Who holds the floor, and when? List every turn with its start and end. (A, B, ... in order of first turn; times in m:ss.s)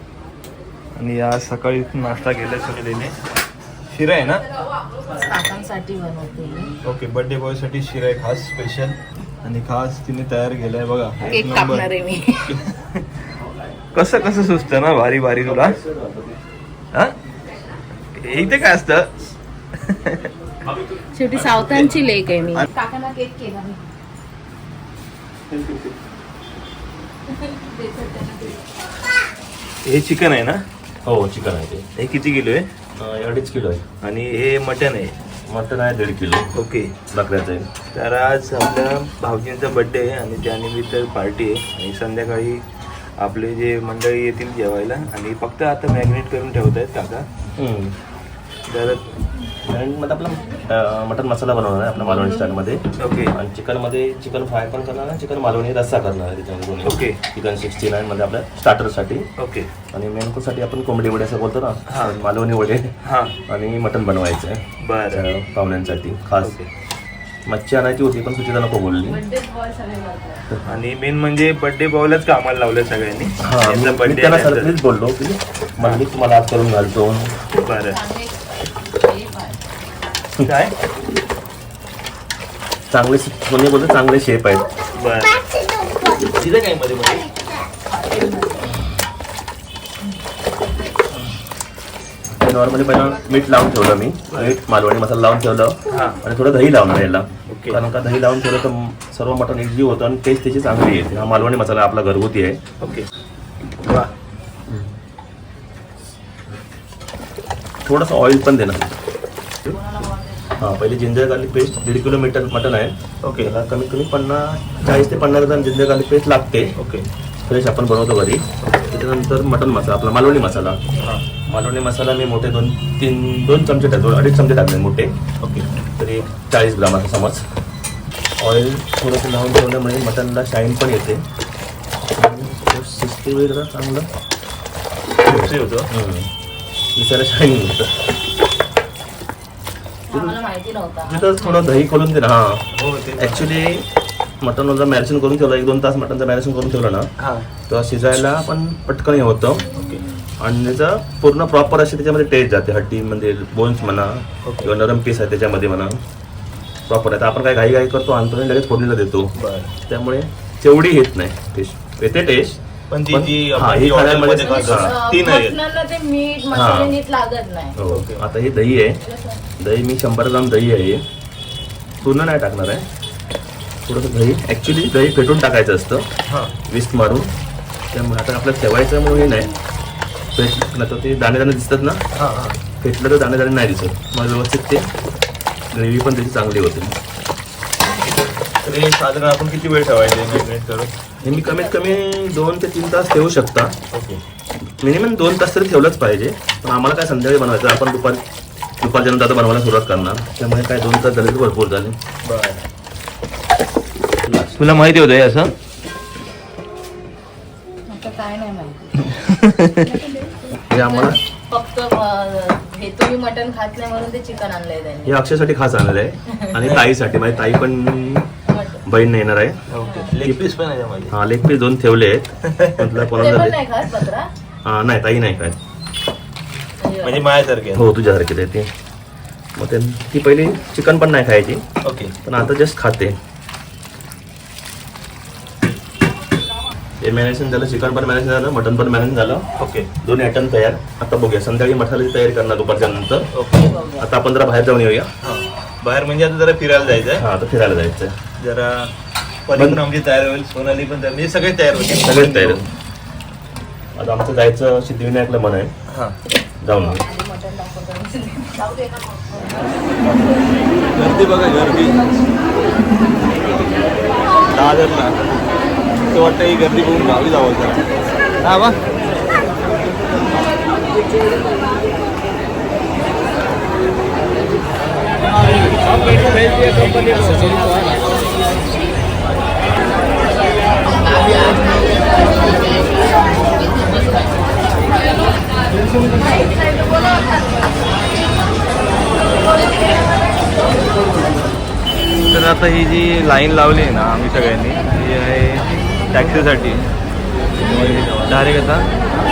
0:00.9-0:03.1 A
0:03.9-0:04.4 A
0:05.1-0:06.7 B
0:06.8-0:11.9 A
0:11.2-0:12.7 B
0:12.5-0:13.0 A
0:13.9-0:15.8 A
0:15.9-0:16.2 C
0:18.1-0:19.1 A
0:19.8-0:20.3 A
0:21.1-0:23.8 B
0:21.4-0:21.9 A
0:27.5-0:28.5 B
0:29.8-0:30.6 A
0:31.0-0:31.8 C
0:32.0-0:32.6 A
0:33.0-0:33.8 C
0:34.0-0:35.1 A
0:35.5-0:36.5 C
0:36.5-0:36.9 A
0:37.1-0:37.7 C
0:37.9-0:42.6 A
0:43.2-0:47.3 A
0:47.6-0:47.9 C
0:48.7-0:49.1 A
0:49.6-0:59.2 C
0:53.0-0:53.3 A
0:56.8-0:57.2 A
0:59.4-0:59.7 A
0:59.9-1:02.9 C
1:01.9-1:02.2 A
1:03.0-1:03.3 A
1:03.5-1:06.6 C
1:04.8-1:05.2 A
1:06.4-1:06.7 A
1:07.5-1:09.2 C
1:09.1-1:10.4 B
1:10.6-1:14.7 A
1:13.4-1:17.4 C
1:15.8-1:16.0 A
1:17.6-1:18.0 A
1:17.8-1:19.6 B
1:20.4-1:20.7 A
1:22.9-1:24.7 C
1:24.9-1:25.4 A
1:26.2-1:27.3 A
1:27.9-1:28.7 B
1:32.3-1:42.6 C
1:35.9-1:36.2 A
1:37.5-1:37.8 A
1:42.8-1:43.1 A
1:43.8-1:44.1 A
1:44.7-1:44.9 C
1:47.8-1:48.9 C
1:49.6-1:50.6 B
1:50.6-1:56.7 C
1:53.2-1:53.5 A
1:56.8-1:57.0 A
1:57.4-2:00.8 C
1:58.6-1:59.0 A
2:01.0-2:01.2 A
2:01.5-2:05.1 C
2:05.4-2:05.7 A
2:06.0-2:07.4 C
2:08.4-2:11.2 C
2:12.1-2:14.1 C
2:15.2-2:15.9 A
2:15.2-2:16.3 C
2:16.9-2:18.2 C
2:20.1-2:21.8 B
2:20.1-2:20.4 C
2:21.0-2:22.7 C
2:22.8-2:23.5 A
2:23.2-2:23.9 C
2:24.4-2:27.1 C
2:27.2-2:27.5 A
2:27.7-2:29.7 C
2:29.8-2:30.0 A
2:30.4-2:36.0 C
2:34.4-2:34.7 A
2:36.9-2:39.3 C
2:39.4-2:39.7 A
2:39.9-2:42.6 C
2:42.9-2:45.6 A
2:43.1-2:44.9 C
2:44.4-2:47.7 B
2:46.5-2:46.9 C
2:47.8-2:49.0 C
2:47.9-2:48.2 A
2:49.0-2:49.4 B
2:49.6-2:51.0 C
2:52.0-2:52.8 C
2:53.8-2:56.0 C
2:56.3-2:56.5 A
2:56.7-2:57.3 C
2:57.9-2:59.5 C
3:00.3-3:02.0 C
3:02.1-3:02.6 A
3:02.8-3:04.1 C
3:04.1-3:04.8 A
3:05.7-3:07.0 C
3:08.0-3:10.9 A
3:11.2-3:13.7 C
3:13.9-3:14.2 A
3:14.8-3:18.2 C
3:18.8-3:22.0 C
3:22.2-3:22.6 A
3:24.2-3:24.6 C
3:24.5-3:25.5 A
3:27.9-3:29.1 B
3:29.0-3:30.0 A
3:29.8-3:35.1 B
3:30.7-3:31.2 C
3:35.0-3:38.3 C
3:36.6-3:36.9 A
3:38.5-3:38.8 B
3:38.8-3:39.6 C
3:39.7-3:41.1 A
3:39.8-3:40.1 B
3:41.1-3:43.6 C
3:42.5-3:43.0 A
3:43.1-3:44.3 B
3:44.6-3:45.6 C
3:46.8-3:47.2 B
3:47.0-3:47.8 A
3:47.7-3:48.7 C
3:49.6-3:51.6 C
3:51.8-3:52.1 A
3:52.2-3:53.1 C
3:57.0-3:59.4 C
3:59.6-3:59.9 A
4:00.0-4:03.3 C
4:03.3-4:03.7 A
4:03.6-4:04.0 B
4:04.0-4:05.1 C
4:05.2-4:07.2 A
4:07.2-4:08.1 C
4:08.4-4:08.9 A
4:09.5-4:12.6 A
4:09.6-4:09.8 C
4:12.0-4:12.6 C
4:14.0-4:15.7 C
4:15.9-4:16.1 A
4:16.6-4:17.0 C
4:16.8-4:19.6 B
4:20.9-4:22.0 A
4:24.5-4:25.2 A
4:26.1-4:27.8 A
4:28.4-4:28.8 A
4:41.1-4:43.0 B
4:46.3-4:47.2 B
4:52.3-4:56.8 A
4:57.6-4:58.4 C
4:57.6-4:58.8 A